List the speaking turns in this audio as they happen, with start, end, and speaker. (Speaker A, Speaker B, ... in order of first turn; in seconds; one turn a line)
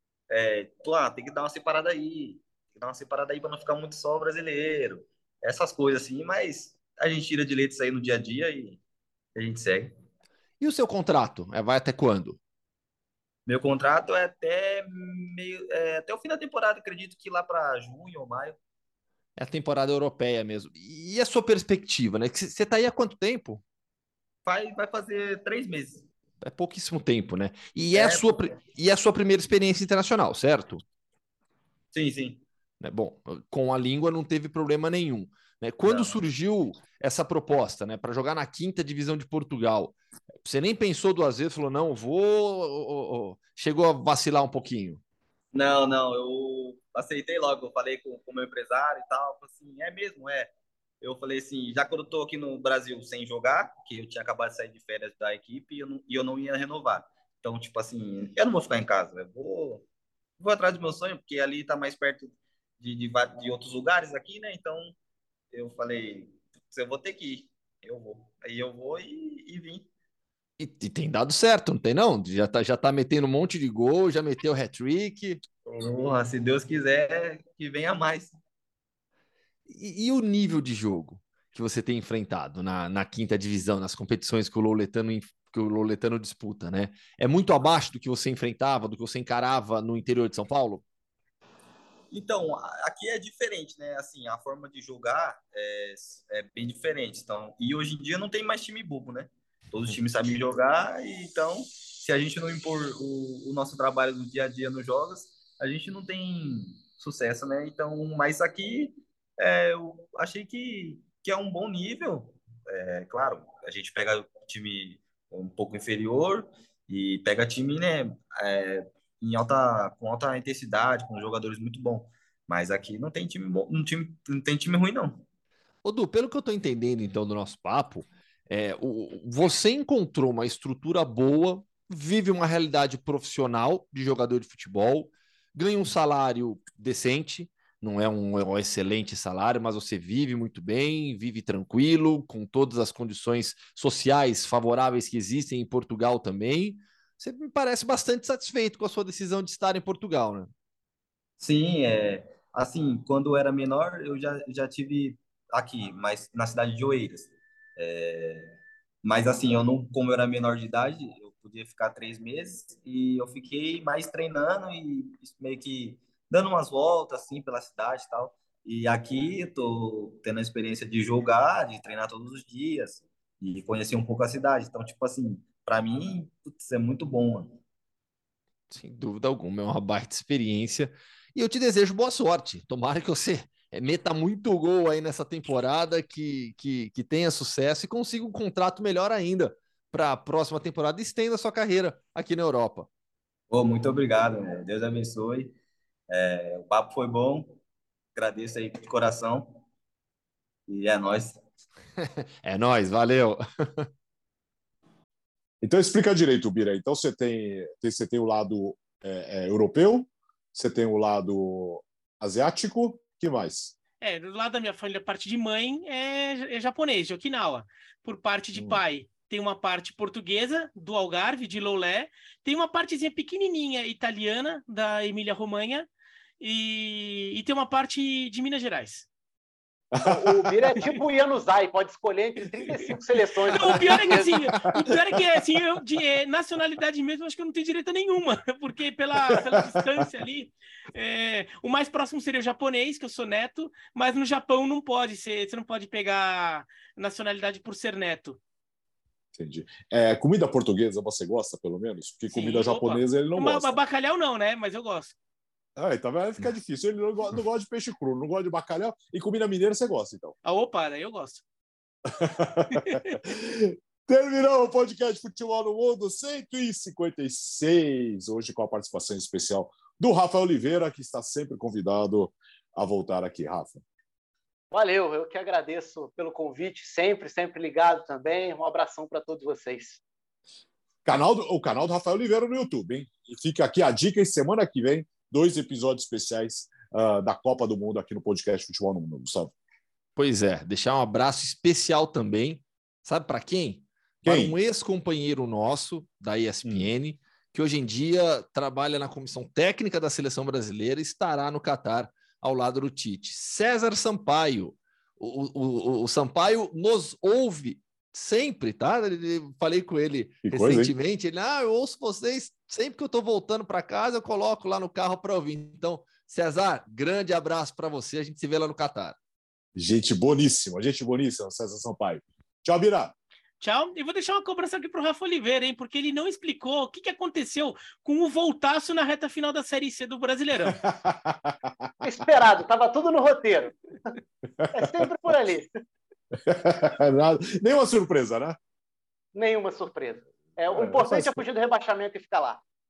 Speaker A: 0.3-8.8
Speaker A: 9.3-9.9
Speaker B: 10.6-12.4
Speaker A: 13.4-18.6
Speaker B: 19.4-23.6
Speaker A: 24.4-26.1
Speaker B: 26.4-30.8
Speaker A: 27.9-28.6
Speaker A: 31.9-32.4
Speaker B: 32.8-45.0
Speaker A: 35.9-36.2
Speaker A: 45.5-59.9
Speaker A: 60.4-65.0
Speaker A: 65.5-69.9
Speaker B: 70.6-75.4
Speaker A: 75.6-78.4
Speaker B: 79.7-90.8
Speaker A: 92.1-125.2
Speaker B: 125.8-150.5
Speaker A: 151.4-177.6
Speaker B: 178.7-192.9
Speaker A: 193.5-195.5
Speaker A: 196.1-197.6
Speaker A: 198.1-199.6
Speaker A: 200.7-201.4
Speaker B: 202.0-203.9
Speaker C: 205.6-213.7
Speaker D: 214.0-225.9
Speaker D: 226.4-229.1
Speaker E: 230.0-234.3
Speaker C: 230.0-230.8
Speaker D: 233.5-248.4
Speaker C: 233.6-235.2
Speaker C: 239.3-239.7
Speaker C: 249.4-253.7
Speaker D: 252.3-255.2
Speaker C: 255.8-260.3
Speaker D: 260.4-261.4
Speaker C: 262.1-273.8
Speaker D: 262.7-263.2
Speaker E: 274.7-280.0
Speaker C: 281.1-289.5
Speaker B: 290.1-319.1
Speaker C: 294.2-294.5
Speaker C: 310.4-310.9
Speaker C: 319.7-323.1
Speaker D: 323.6-330.8
Speaker C: 330.6-331.9
Speaker E: 332.0-334.1
Speaker C: 334.6-334.9
Speaker E: 334.7-335.7
Speaker C: 336.4-338.6
Speaker E: 339.3-342.6
Speaker C: 340.7-341.4